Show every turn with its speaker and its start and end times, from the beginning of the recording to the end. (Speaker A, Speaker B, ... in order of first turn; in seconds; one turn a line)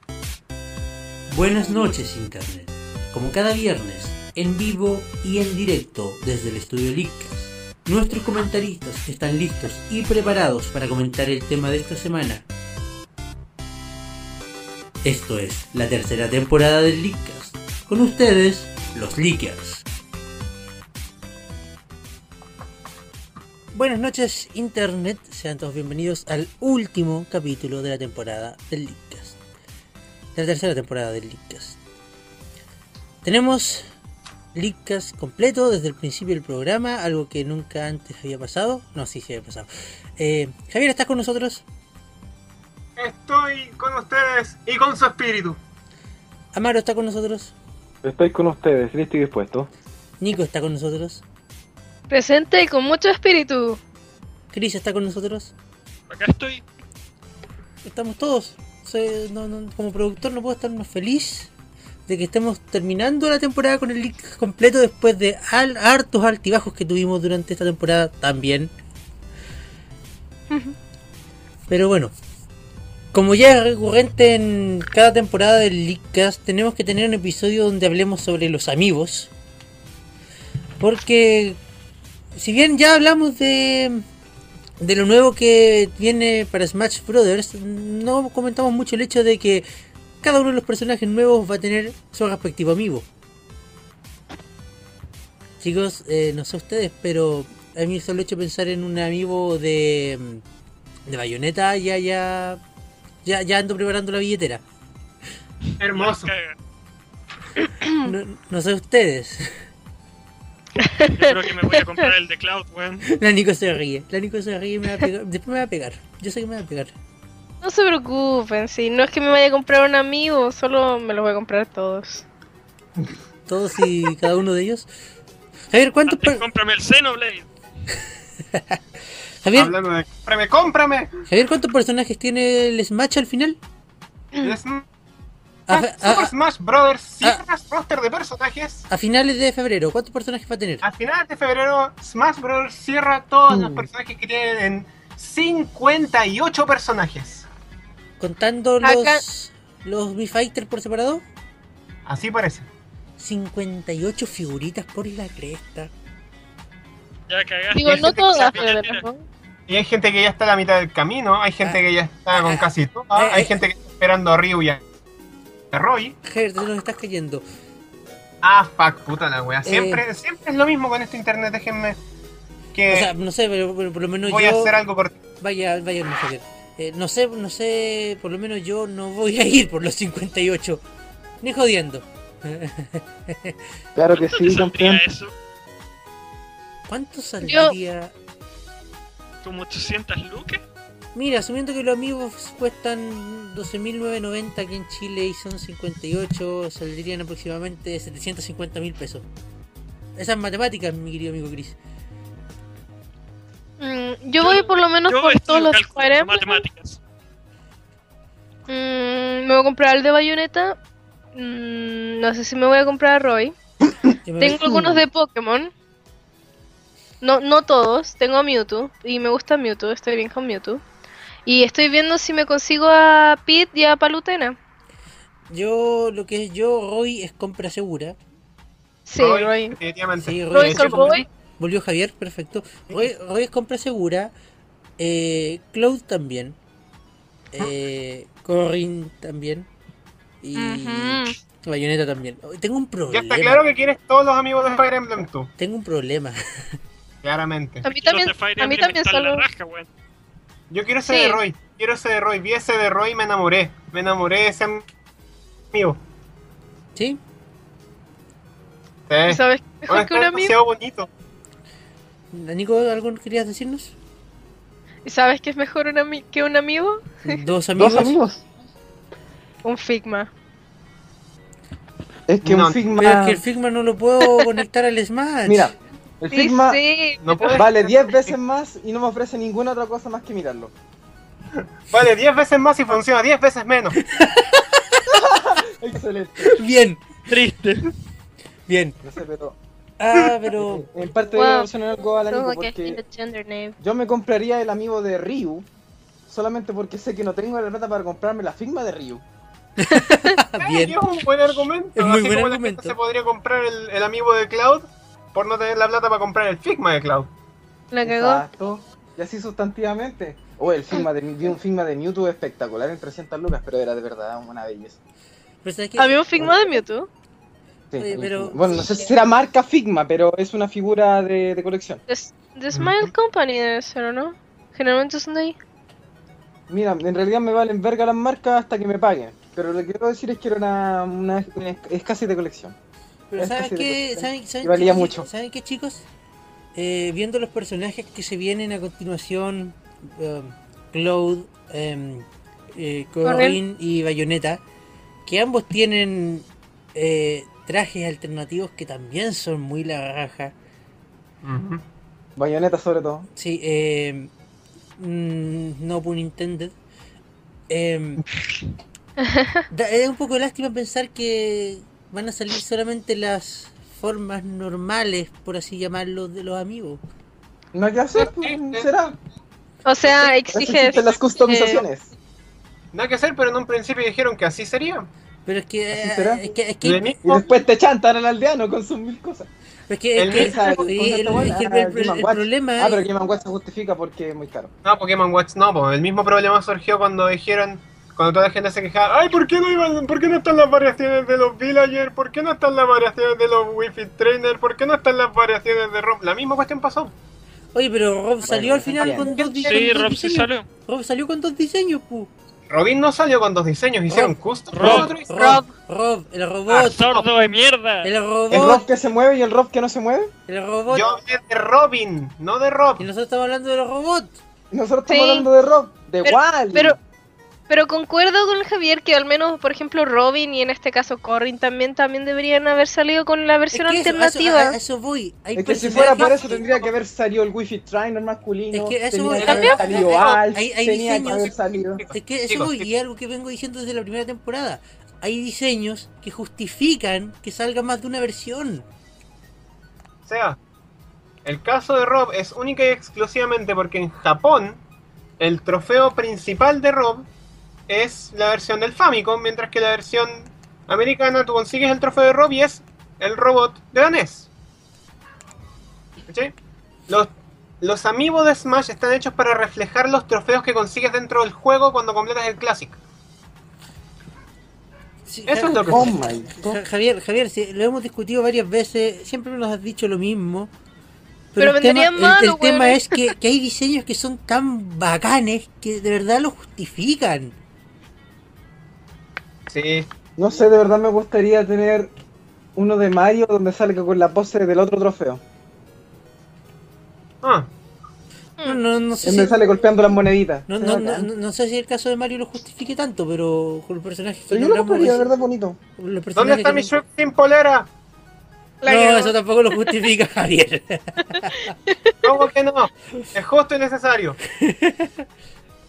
Speaker A: 1.3-12.5
Speaker A: 15.0-19.8
Speaker A: 23.7-29.4
Speaker A: 30.4-31.8
Speaker A: 33.2-33.9
Speaker A: 34.5-41.6
Speaker B: 43.0-45.6
Speaker A: 46.5-47.5
Speaker C: 48.0-49.7
Speaker A: 50.2-51.2
Speaker D: 52.1-53.8
Speaker A: 54.5-55.5
Speaker E: 56.1-56.6
Speaker A: 57.9-61.5
Speaker A: 62.1-68.7
Speaker D: 70.5-70.8
Speaker A: 71.7-72.1
Speaker A: 73.1-79.3
Speaker A: 80.8-81.6
Speaker A: 82.3-84.0
Speaker A: 84.8-89.7
Speaker A: 90.2-93.1
Speaker A: 95.6-100.4
Speaker A: 101.1-102.6
Speaker A: 103.2-104.6
Speaker B: 105.8-106.3
Speaker E: 105.9-106.6
Speaker D: 107.6-108.1
Speaker A: 108.0-109.5
Speaker D: 110.8-112.0
Speaker E: 111.1-113.0
Speaker A: 113.1-116.9
Speaker D: 117.6-122.2
Speaker A: 123.5-124.9
Speaker A: 125.7-126.4
Speaker E: 126.1-127.5
Speaker A: 128.5-128.8
Speaker A: 129.4-129.7
Speaker B: 129.6-131.1
Speaker A: 131.3-133.6
Speaker B: 134.4-134.8
Speaker A: 135.7-136.3
Speaker B: 135.7-138.8
Speaker A: 138.9-140.8
Speaker B: 140.8-147.5
Speaker A: 143.5-143.9
Speaker A: 148.2-151.2
Speaker D: 148.8-149.2
Speaker B: 152.1-152.7
Speaker A: 153.2-155.9
Speaker E: 157.3-159.1
Speaker D: 157.7-159.2
Speaker B: 157.8-158.6
Speaker B: 159.7-164.8
Speaker A: 161.6-163.5
Speaker B: 165.7-166.2
Speaker A: 166.2-167.4
Speaker B: 168.4-172.0
Speaker A: 169.7-170.0
Speaker B: 172.7-173.1
Speaker A: 172.9-174.7
Speaker B: 174.3-175.2
Speaker A: 175.4-180.8
Speaker A: 181.4-183.6
Speaker C: 184.0-185.0
Speaker E: 184.2-185.3
Speaker A: 186.9-188.1
Speaker D: 187.4-187.8
Speaker E: 189.4-190.6
Speaker A: 191.2-199.2
Speaker A: 200.2-201.8
Speaker D: 203.8-206.7
Speaker E: 204.4-207.0
Speaker D: 208.7-210.8
Speaker D: 211.3-213.5
Speaker A: 214.2-215.1
Speaker D: 214.4-215.7
Speaker D: 217.2-220.8
Speaker D: 221.5-224.6
Speaker A: 225.5-228.2
Speaker D: 229.1-229.8
Speaker B: 229.2-231.2
Speaker A: 230.2-234.3
Speaker D: 230.5-231.3
Speaker A: 235.0-236.6
Speaker A: 237.5-239.7
Speaker A: 240.4-243.6
Speaker D: 240.6-241.4
Speaker B: 243.1-245.5
Speaker A: 245.6-246.4
Speaker B: 247.2-247.8
Speaker D: 247.8-249.4
Speaker E: 248.0-249.9
Speaker B: 250.7-254.9
Speaker D: 251.0-251.4
Speaker B: 255.7-256.0
Speaker B: 259.1-261.1
Speaker D: 259.3-260.6
Speaker A: 262.3-263.9
Speaker D: 265.1-267.4
Speaker A: 267.2-268.2
Speaker C: 267.8-268.4
Speaker D: 269.6-270.3
Speaker C: 272.3-273.4
Speaker B: 272.4-272.8
Speaker A: 273.0-275.7
Speaker C: 275.5-276.8
Speaker D: 276.3-277.6
Speaker B: 277.2-278.4
Speaker C: 277.6-280.7
Speaker B: 281.9-284.0
Speaker A: 284.0-284.8
Speaker C: 285.1-286.6
Speaker A: 286.4-287.1
Speaker E: 287.3-287.9
Speaker A: 288.7-289.0
Speaker C: 289.0-289.6
Speaker A: 290.0-290.9
Speaker C: 290.6-293.0
Speaker D: 291.4-291.7
Speaker D: 292.3-293.8
Speaker C: 293.8-295.7
Speaker C: 296.3-299.2
Speaker A: 299.8-301.0
Speaker D: 299.9-300.4
Speaker B: 300.6-307.3
Speaker A: 301.6-303.0
Speaker D: 307.9-308.4
Speaker C: 308.0-315.0
Speaker A: 315.6-316.6
Speaker D: 316.0-317.1
Speaker C: 317.9-322.0
Speaker A: 318.0-319.0
Speaker D: 322.1-325.6
Speaker B: 322.7-323.1
Speaker C: 326.7-332.8
Speaker A: 333.3-336.1
Speaker C: 333.4-335.3
Speaker A: 336.8-344.6
Speaker D: 343.2-343.6
Speaker A: 345.3-350.5
Speaker B: 351.4-351.8
Speaker C: 352.4-353.3
Speaker A: 353.4-354.3
Speaker A: 355.0-356.7
Speaker A: 357.7-358.2
Speaker D: 359.2-359.6
Speaker A: 359.7-367.0
Speaker C: 367.7-369.2
Speaker B: 368.2-368.9
Speaker D: 369.9-371.8
Speaker C: 370.5-372.1
Speaker B: 372.9-375.1
Speaker A: 375.5-377.0
Speaker C: 375.9-376.4
Speaker B: 376.8-377.4
Speaker C: 377.2-379.5
Speaker A: 379.9-383.0
Speaker B: 380.2-380.6
Speaker C: 380.3-384.7
Speaker B: 384.8-397.1
Speaker A: 397.7-402.3
Speaker C: 398.4-399.3
Speaker B: 399.3-399.8
Speaker E: 399.6-400.7
Speaker B: 402.7-405.6
Speaker A: 404.1-407.1
Speaker E: 404.7-405.1
Speaker D: 405.4-405.7
Speaker B: 406.7-407.3
Speaker E: 406.7-408.1
Speaker A: 408.0-408.8
Speaker C: 408.5-410.3
Speaker A: 410.5-411.2
Speaker B: 410.9-413.1
Speaker A: 413.0-414.4
Speaker C: 414.7-417.0
Speaker D: 415.1-415.5
Speaker D: 416.2-417.0
Speaker D: 417.7-424.8
Speaker A: 423.7-426.6
Speaker C: 425.6-432.0
Speaker B: 426.0-426.6
Speaker A: 428.7-431.5
Speaker B: 429.4-430.4
Speaker D: 429.4-430.0
Speaker B: 432.0-432.9
Speaker A: 432.1-438.9
Speaker B: 440.3-440.6
Speaker B: 441.4-444.8
Speaker B: 445.4-447.3
Speaker B: 447.9-454.5
Speaker B: 456.3-456.5
Speaker B: 457.1-463.0
Speaker A: 465.3-470.7
Speaker B: 465.5-466.2
Speaker C: 465.9-466.8
Speaker A: 471.5-477.6
Speaker D: 471.6-473.3
Speaker B: 479.7-480.1
Speaker C: 480.4-482.1
Speaker C: 482.8-485.4
Speaker B: 487.4-487.7
Speaker A: 488.6-489.8
Speaker C: 489.2-491.3
Speaker A: 490.7-495.3
Speaker C: 494.5-495.8
Speaker A: 496.0-496.9
Speaker B: 496.4-497.9
Speaker D: 498.8-499.9
Speaker A: 498.9-501.7
Speaker D: 501.6-502.3
Speaker B: 502.2-504.4
Speaker A: 504.6-505.2